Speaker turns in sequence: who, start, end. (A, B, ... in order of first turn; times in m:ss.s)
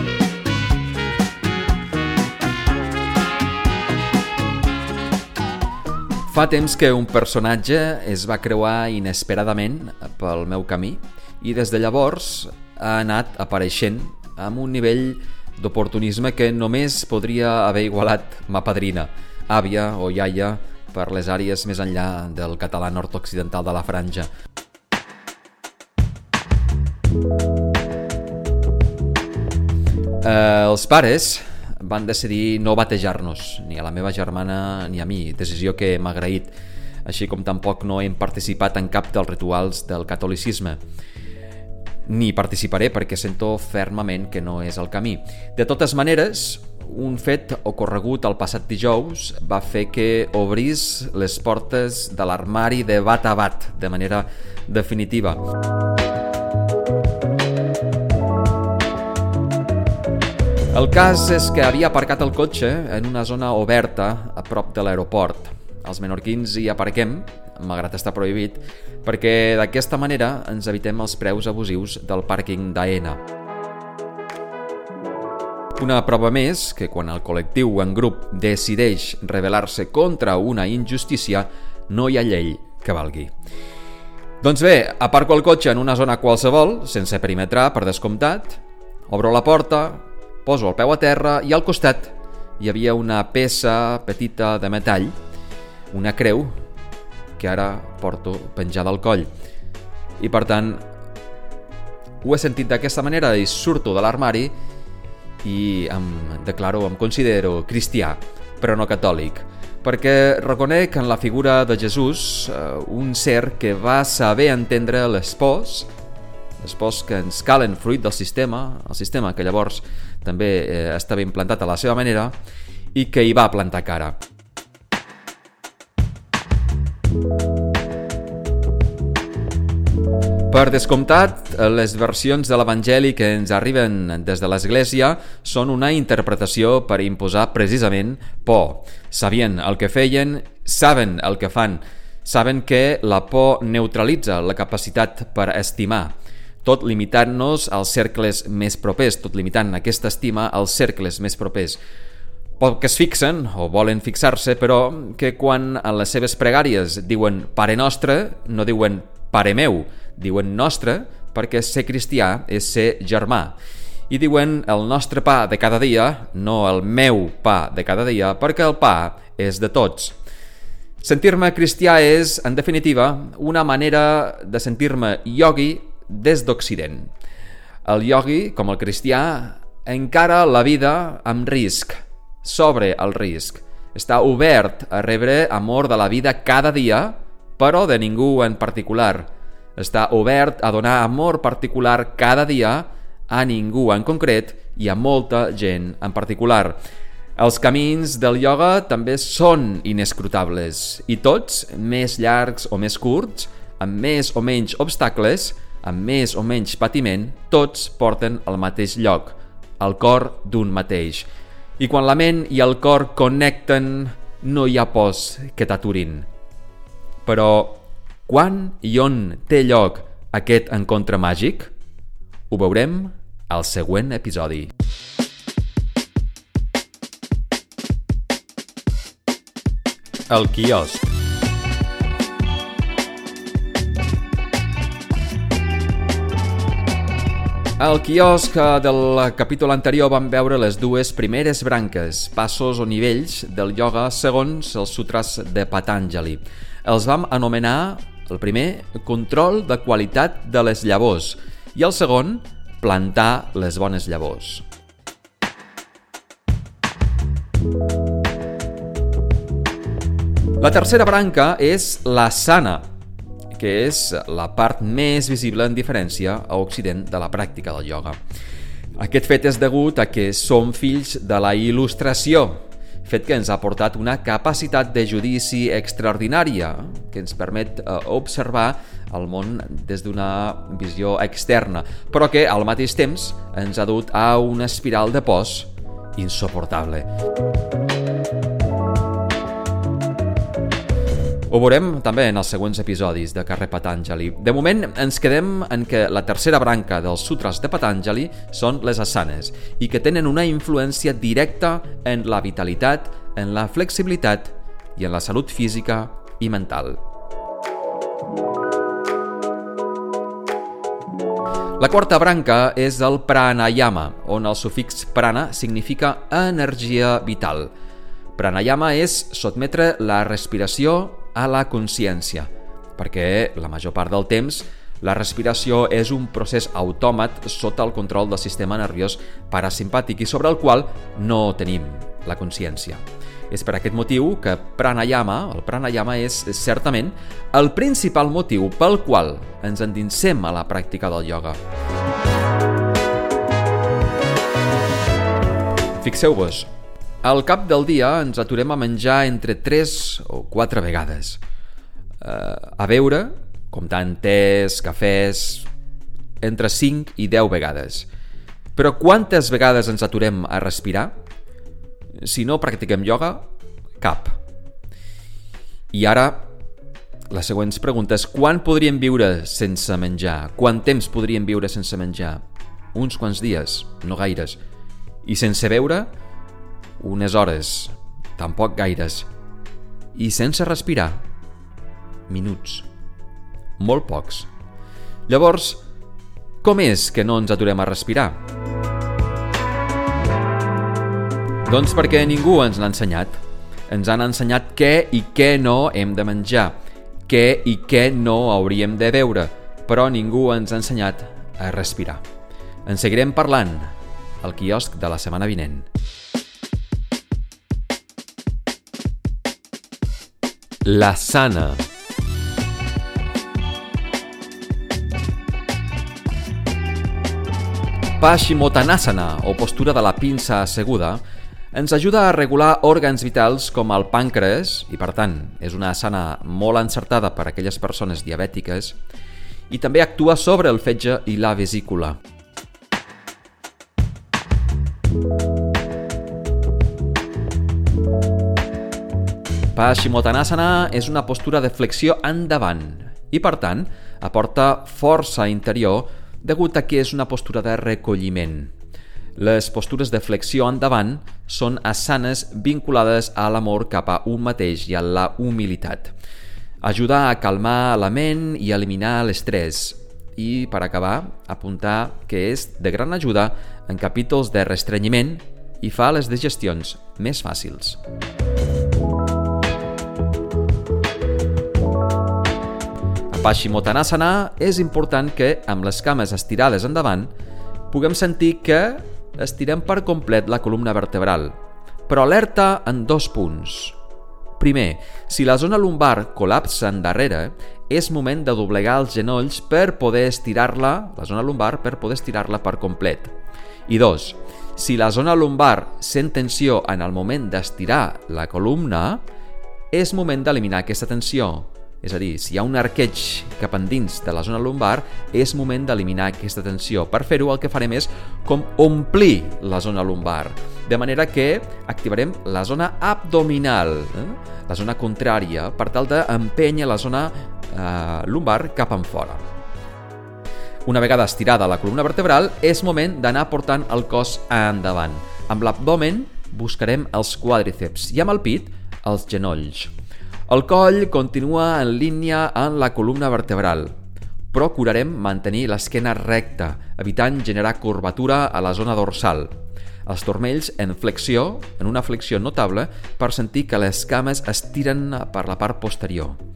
0:06.3-0:24.3 A
0:30.2-0:36.5 A
0:37.0-0:40.8 A
0:42.1-0:55.4 A
1:00.7-1:13.2 A
1:15.7-1:23.3 A
1:24.4-1:35.1 A
1:35.9-1:36.5 A
1:37.4-1:39.3 A
1:40.2-1:40.8 A
1:42.2-1:44.5 A
1:45.4-1:55.9 A
1:56.6-2:02.3 A
2:02.9-2:04.1 A
2:10.5-2:31.8 A
2:32.6-2:43.6 A
2:44.1-2:50.2 A
2:51.0-2:57.1 A
2:57.8-3:16.8 A
3:17.4-3:31.3 A
3:31.8-3:36.3 A
3:37.2-3:41.7 A
3:42.5-3:44.7 A
3:50.3-3:51.1 A
3:57.8-4:14.6 A
4:20.6-4:22.8 A
4:23.5-4:28.2 A
4:29.0-4:47.1 A
4:51.5-5:07.0 A
5:11.8-5:17.7 A
5:18.3-5:41.6 A
5:46.0-5:46.7 A
5:47.2-5:51.4 A
5:52.2-5:55.7 A
5:56.4-5:58.1 A
5:58.7-6:01.1 A
6:02.2-6:03.4 A
6:04.0-6:04.4 A
6:05.9-6:06.5 A
6:07.3-6:12.4 A
6:12.9-6:14.6 A
6:15.2-6:16.1 A
6:17.0-6:19.3 A
6:20.1-6:21.2 A
6:22.3-6:22.9 A
6:23.8-6:24.5 A
6:25.3-6:25.8 A
6:26.6-6:28.4 A
6:31.6-6:42.2 A
6:42.8-6:45.9 A
6:50.8-6:51.8 A
6:58.2-7:01.2 A
7:01.7-7:09.0 A
7:09.7-7:12.2 A
7:19.7-7:28.7 A
7:29.4-7:36.1 A
7:36.8-7:48.0 A
7:53.3-7:57.3 A
7:57.9-8:01.5 A
8:02.1-8:04.0 A
8:04.6-8:13.3 A
8:13.9-8:19.2 A
8:19.9-8:39.4 A
8:40.8-8:49.9 A
8:50.5-8:53.9 A
8:54.5-8:59.5 A
9:00.0-9:06.4 A